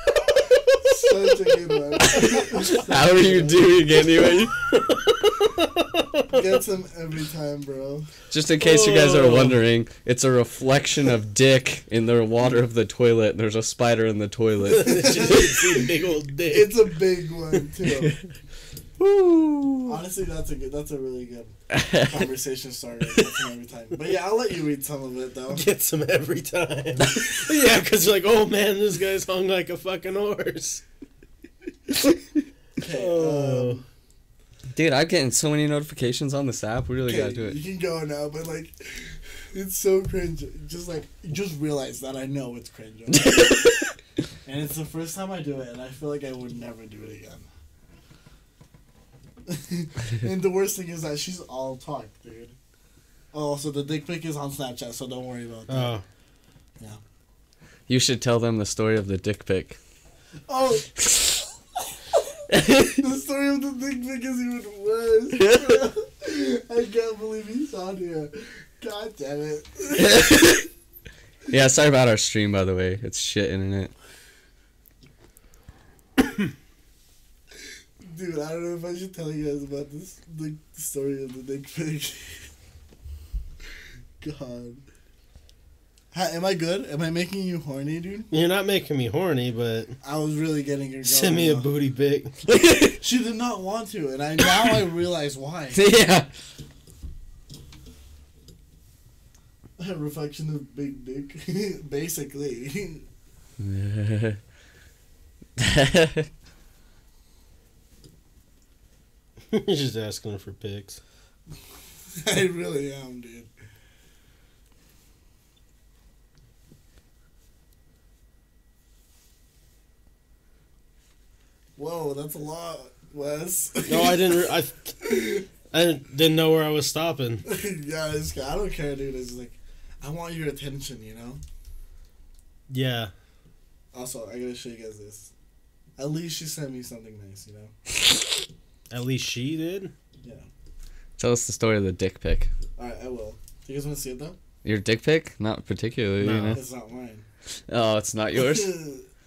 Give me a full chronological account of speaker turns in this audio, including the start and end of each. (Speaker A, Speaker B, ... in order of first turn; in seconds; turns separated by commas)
Speaker A: 0.8-3.8, Speaker B: 2.0-4.6, Speaker C: 4.6-6.4, Speaker A: 6.3-8.1, Speaker B: 8.3-15.2, Speaker C: 8.6-9.6, Speaker C: 14.7-17.0, Speaker A: 14.8-15.9, Speaker A: 16.5-18.2, Speaker B: 19.0-20.0, Speaker A: 19.9-25.6, Speaker B: 21.7-22.2, Speaker C: 25.5-30.8, Speaker A: 32.8-33.9, Speaker C: 32.9-33.8, Speaker B: 34.7-37.6, Speaker A: 37.1-43.6, Speaker B: 43.2-43.7, Speaker A: 44.5-47.5, Speaker A: 49.5-52.5, Speaker A: 53.3-56.0, Speaker C: 55.7-56.0, Speaker B: 57.9-59.8, Speaker A: 60.5-61.4, Speaker B: 62.5-62.9, Speaker A: 62.9-70.4, Speaker B: 65.4-65.8, Speaker B: 70.0-70.7, Speaker B: 71.5-73.9, Speaker A: 78.0-82.5, Speaker A: 84.2-84.8, Speaker A: 86.1-88.3, Speaker C: 88.3-90.0, Speaker A: 90.0-91.7, Speaker C: 91.0-92.3, Speaker B: 92.5-93.0, Speaker A: 93.0-95.8, Speaker B: 95.7-96.3, Speaker A: 99.8-103.1, Speaker B: 103.6-104.4, Speaker B: 105.6-106.3, Speaker C: 109.5-111.0, Speaker A: 112.2-113.5, Speaker A: 121.8-124.3, Speaker C: 123.9-127.4, Speaker A: 125.0-125.4, Speaker A: 127.5-131.4, Speaker C: 132.7-133.1, Speaker A: 133.9-135.3, Speaker A: 136.0-137.7, Speaker C: 138.9-139.9, Speaker B: 141.2-142.5, Speaker A: 142.8-144.4, Speaker B: 144.6-146.6, Speaker C: 146.2-146.6, Speaker A: 146.5-147.3, Speaker B: 147.7-148.7, Speaker A: 148.3-149.1